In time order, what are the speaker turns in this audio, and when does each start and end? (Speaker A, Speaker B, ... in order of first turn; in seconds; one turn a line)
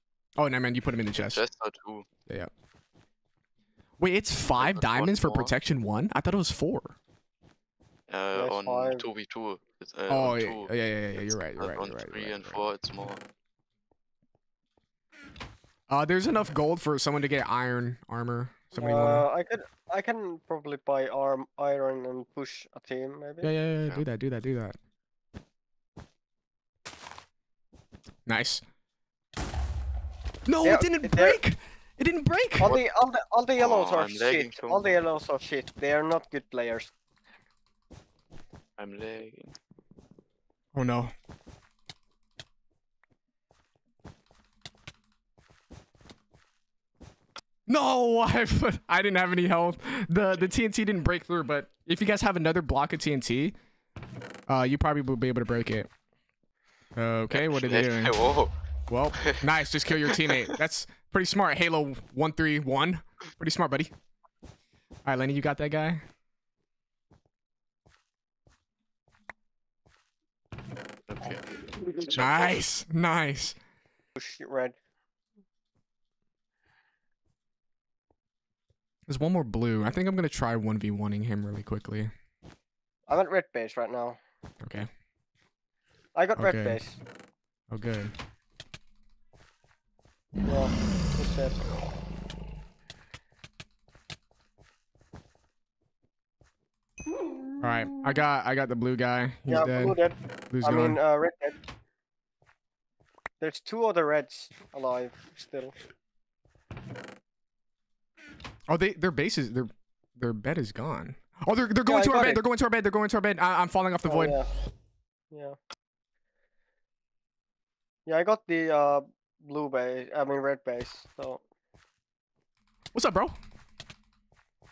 Speaker A: 0.4-1.4
Speaker B: 1.1-2.0
Speaker A: 4.0-7.0
Speaker B: 4.6-5.5
Speaker B: 8.1-10.7
Speaker C: 8.3-9.1
Speaker A: 10.1-12.6
Speaker B: 11.2-13.2
Speaker A: 15.9-19.2
Speaker C: 18.7-23.5
Speaker A: 23.4-24.8
Speaker A: 28.2-28.6
Speaker A: 30.4-32.8
Speaker C: 30.6-31.4
Speaker C: 32.6-36.9
Speaker B: 33.5-35.0
Speaker B: 38.8-39.5
Speaker A: 40.7-41.1
Speaker A: 47.7-53.5
Speaker A: 54.5-55.9
Speaker A: 57.0-58.1
Speaker B: 57.3-58.5
Speaker A: 58.9-63.9
Speaker B: 59.9-60.3
Speaker A: 65.0-66.0
Speaker B: 71.1-72.6
Speaker A: 72.2-73.6
Speaker C: 74.2-74.8
Speaker A: 79.1-82.1
Speaker C: 83.1-84.2
Speaker A: 84.6-84.9
Speaker C: 86.1-87.0
Speaker A: 86.4-86.8
Speaker A: 87.7-88.1
Speaker C: 90.4-91.6
Speaker A: 97.6-100.0
Speaker C: 99.5-101.5
Speaker A: 100.5-101.0
Speaker C: 103.4-105.7
Speaker A: 108.7-114.3
Speaker C: 111.8-112.4
Speaker C: 114.0-114.5
Speaker C: 115.3-115.6
Speaker C: 118.0-121.4
Speaker A: 122.9-123.3